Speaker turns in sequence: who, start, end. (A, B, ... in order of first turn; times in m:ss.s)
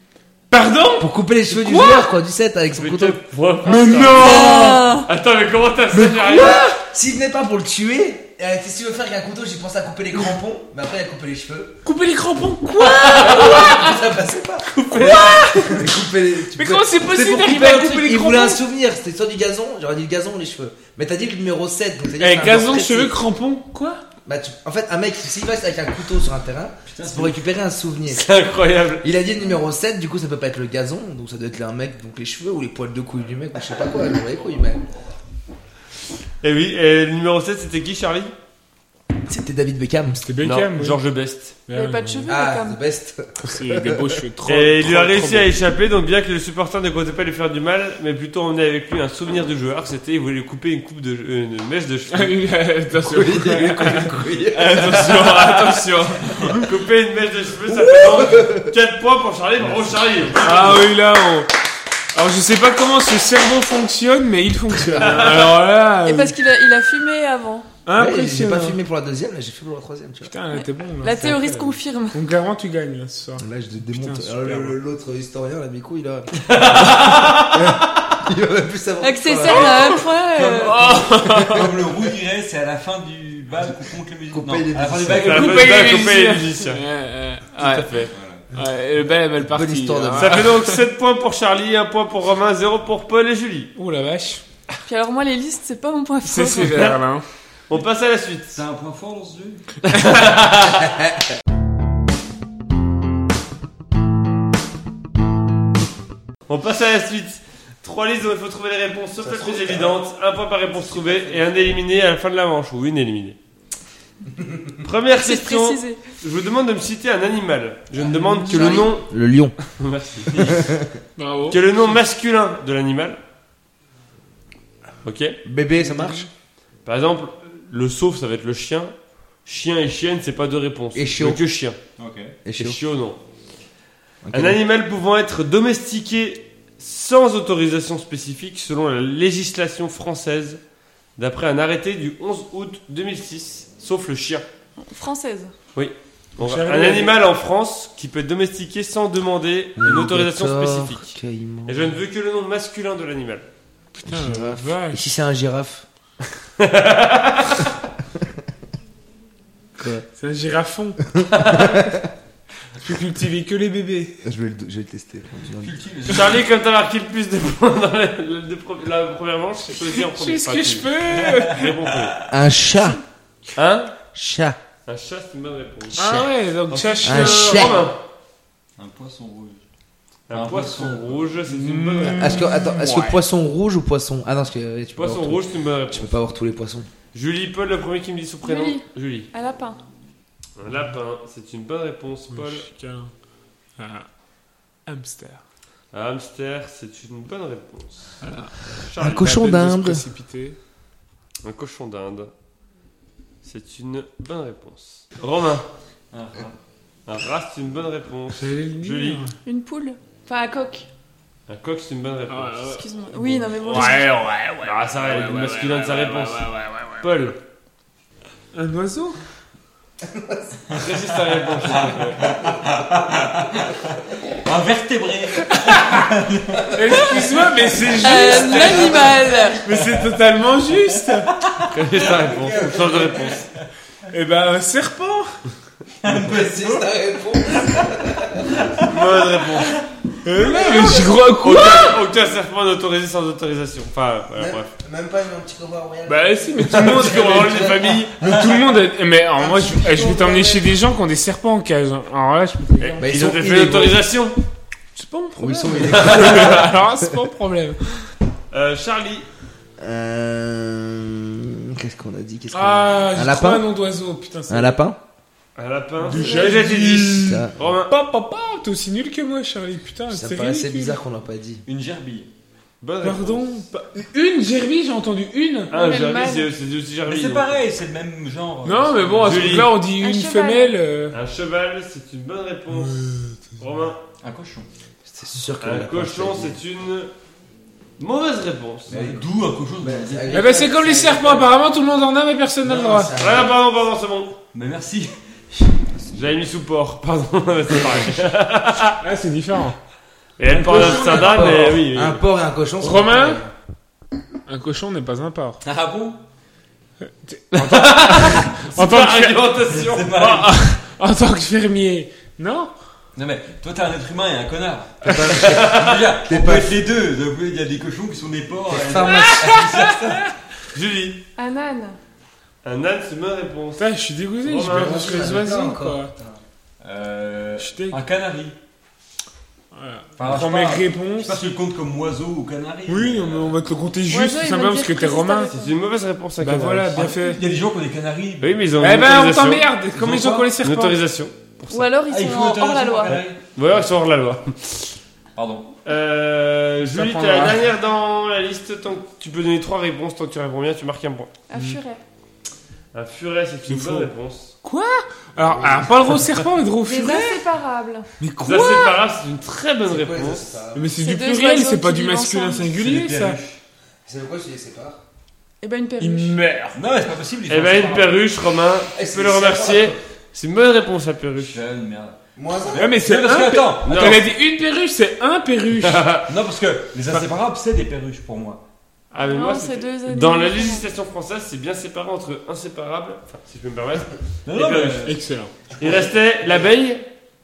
0:00.5-0:02.1 A
0:01.0-0:03.2 B
0:02.7-0:06.6 C
0:03.6-0:05.0 A
0:04.1-0:05.1 D
0:05.9-0:11.8 B
0:06.4-0:06.6 A
0:11.8-0:14.0 A
0:12.8-0:13.7 C
0:13.2-0:23.1 B
0:14.8-0:15.9 A
0:15.0-0:15.3 C
0:16.6-0:18.6 A
0:22.2-0:24.0 A
0:24.2-0:28.2 B
0:26.9-0:27.4 E
0:28.1-0:29.0 C
0:29.0-0:34.8 B
0:36.4-0:38.3 C
0:39.3-0:40.2 B
0:40.2-0:41.0 A
0:40.4-0:41.6 C
0:41.7-0:42.3 A
0:41.7-0:42.8 D
0:42.3-0:44.2 B
0:43.4-0:45.5 A
0:44.4-0:52.4 C
0:52.1-0:56.6 A
0:53.0-0:55.0 B
0:54.7-1:00.9 C
0:57.7-0:58.7 B
1:00.4-1:01.5 A
1:02.1-1:06.4 A
1:05.0-1:05.6 C
1:06.0-1:07.7 D
1:07.8-1:08.8 A
1:07.9-1:10.3 B
1:10.2-1:14.8 A
1:10.5-1:12.2 D
1:13.4-1:19.9 B
1:16.3-1:17.9 C
1:19.0-1:20.8 D
1:19.4-1:21.7 A
1:20.4-1:26.0 E
1:21.3-1:21.7 B
1:24.3-1:25.5 B
1:25.2-1:26.8 C
1:25.3-1:30.8 A
1:27.6-1:28.1 C
1:28.1-1:28.5 E
1:29.4-1:30.5 B
1:30.1-1:33.7 C
1:33.7-1:34.4 A
1:34.8-1:36.9 D
1:36.2-1:37.2 A
1:37.7-1:38.6 C
1:38.5-1:39.7 E
1:39.8-1:41.0 C
1:46.5-1:53.4 C
1:49.2-1:50.0 B
1:54.8-1:59.1 C
1:55.2-1:56.0 D
1:58.0-1:59.6 B
1:59.7-2:00.6 C
2:00.3-2:00.6 E
2:00.4-2:01.0 B
2:01.2-2:01.6 A
2:01.5-2:03.2 C
2:05.0-2:05.4 C
2:05.4-2:06.3 B
2:06.8-2:08.9 C
2:09.4-2:11.8 C
2:10.9-2:11.4 B
2:12.0-2:12.4 E
2:12.4-2:12.8 B
2:12.5-2:13.2 C
2:14.2-2:14.6 B
2:14.3-2:20.6 C
2:21.2-2:24.4 C
2:24.8-2:25.5 D
2:25.7-2:31.1 C
2:26.4-2:27.1 A
2:29.8-2:32.0 B
2:31.6-2:33.4 C
2:34.0-2:35.0 A
2:34.0-2:35.8 B
2:36.6-2:37.6 C
2:39.8-2:40.0 B
2:40.1-2:41.2 A
2:41.3-2:41.8 C
2:42.8-2:44.2 A
2:44.2-2:45.7 B
2:45.5-2:46.4 E
2:46.0-2:50.9 C
2:49.8-2:51.7 A
2:51.1-2:52.2 E
2:51.5-2:52.2 C
2:52.3-2:53.0 B
2:53.6-2:53.9 C
2:54.1-2:54.6 B
2:54.8-2:58.0 C
2:56.0-2:57.8 A
2:56.0-2:56.3 B
2:57.0-2:57.9 B
2:58.8-2:59.6 E
3:00.3-3:02.5 C
3:00.3-3:01.2 E
3:01.5-3:03.2 A
3:02.1-3:06.9 B
3:05.0-3:06.1 C
3:07.1-3:09.3 C
3:08.4-3:09.8 D
3:10.6-3:12.7 C
3:12.3-3:13.1 A
3:13.8-3:14.1 A
3:14.8-3:15.4 A
3:15.9-3:18.2 C
3:18.2-3:18.6 A
3:18.8-3:19.3 C
3:19.0-3:20.0 B
3:19.1-3:20.6 A
3:21.4-3:22.3 C
3:23.4-3:25.6 C
3:26.1-3:26.6 E
3:27.1-3:29.3 C
3:28.3-3:29.3 A
3:29.4-3:30.9 D
3:31.5-3:32.7 C
3:32.3-3:32.8 A
3:32.6-3:34.1 D
3:33.2-3:34.0 C
3:33.5-3:37.1 A
3:34.6-3:37.4 C
3:38.5-3:39.2 A
3:40.0-3:40.6 B
3:40.7-3:42.4 C
3:41.6-3:49.0 E
3:45.4-3:46.1 A
3:46.7-3:51.3 A
3:48.0-3:49.6 D
3:48.3-3:49.3 B
3:49.7-3:50.0 E
3:50.9-3:53.6 E
3:51.7-3:53.5 C
3:54.1-3:55.3 A
3:56.0-3:56.9 E
3:56.0-3:58.6 B
3:57.5-3:59.8 E
3:58.8-3:59.8 C
4:00.2-4:02.0 A
4:00.4-4:01.2 B
4:01.4-4:04.7 C
4:04.4-4:08.5 B
4:06.1-4:13.0 A
4:06.7-4:08.1 C
4:09.4-4:10.8 B
4:12.8-4:14.4 C
4:13.0-4:14.0 B
4:14.9-4:18.1 A
4:15.4-4:17.1 B
4:15.7-4:16.6 C
4:18.5-4:19.2 C
4:19.8-4:23.6 B
4:22.5-4:24.8 A
4:24.5-4:25.0 B
4:25.6-4:27.9 C
4:26.0-4:31.0 A
4:26.1-4:26.9 E
4:27.2-4:27.6 B
4:30.1-4:31.6 B
4:31.6-4:32.3 E
4:32.8-4:33.4 C
4:33.0-4:35.7 A
4:35.7-4:36.5 D
4:35.7-4:37.6 C
4:37.0-4:39.7 E
4:38.6-4:41.2 A
4:39.2-4:39.8 C
4:39.9-4:40.8 D
4:41.1-4:43.0 C
4:42.8-4:43.4 A
4:43.6-4:44.0 C
4:44.2-4:44.7 E
4:45.0-4:46.6 B
4:45.6-4:47.1 C
4:48.0-4:49.0 C
4:48.9-4:50.6 E
4:48.9-4:51.5 B
4:50.3-4:53.2 A
4:52.6-4:53.5 B
4:53.2-4:54.4 C
4:54.5-4:56.0 E
4:56.1-4:59.0 C
4:59.0-4:59.8 A
5:00.4-5:02.2 C
5:00.5-5:01.6 E
5:00.6-5:01.5 A
5:00.6-5:03.5 B
5:02.8-5:03.4 A
5:04.5-5:05.6 A
5:05.6-5:06.2 E
5:07.0-5:09.5 A
5:07.5-5:10.3 C
5:09.6-5:10.5 E
5:10.2-5:12.7 A
5:13.2-5:20.2 E
5:15.0-5:16.8 B
5:15.4-5:16.0 C
5:18.7-5:19.9 B
5:19.0-5:20.3 A
5:20.7-5:21.2 C
5:21.4-5:22.0 D
5:22.6-5:23.8 C
5:23.8-5:26.1 A
5:24.4-5:25.2 C
5:24.6-5:26.4 B
5:26.8-5:28.6 E
5:27.6-5:28.0 A
5:29.7-5:31.4 A
5:30.2-5:33.5 E
5:32.9-5:35.5 A
5:34.1-5:35.7 D
5:35.5-5:37.1 C
5:36.4-5:37.4 A
5:36.9-5:38.7 E
5:38.4-5:41.8 C
5:38.8-5:41.0 A
5:40.0-5:40.3 E
5:41.7-5:43.2 D
5:42.1-5:43.4 E
5:43.0-5:44.9 C
5:45.3-5:45.7 E
5:45.8-5:51.3 C
5:46.9-5:47.6 A
5:51.5-5:52.0 D
5:52.9-5:54.5 C
5:53.7-5:54.1 A
5:54.6-5:57.4 A
5:55.5-5:55.8 B
5:56.8-5:58.1 D
5:58.2-5:59.0 A
5:58.4-6:00.5 C
5:59.8-6:00.9 B
6:00.7-6:03.4 A
6:01.0-6:02.8 D
6:02.7-6:03.6 E
6:04.0-6:05.0 B
6:05.6-6:06.4 D
6:06.0-6:06.8 A
6:06.7-6:08.2 E
6:07.5-6:11.6 C
6:08.9-6:10.0 B
6:11.5-6:12.2 E
6:12.4-6:13.0 B
6:12.7-6:14.2 E
6:12.7-6:16.1 A
6:13.8-6:14.3 C
6:15.8-6:16.3 C
6:16.2-6:18.6 E
6:19.1-6:25.1 C
6:19.2-6:20.9 D
6:24.4-6:25.2 E
6:25.0-6:25.5 A
6:25.7-6:26.7 E
6:25.8-6:27.0 C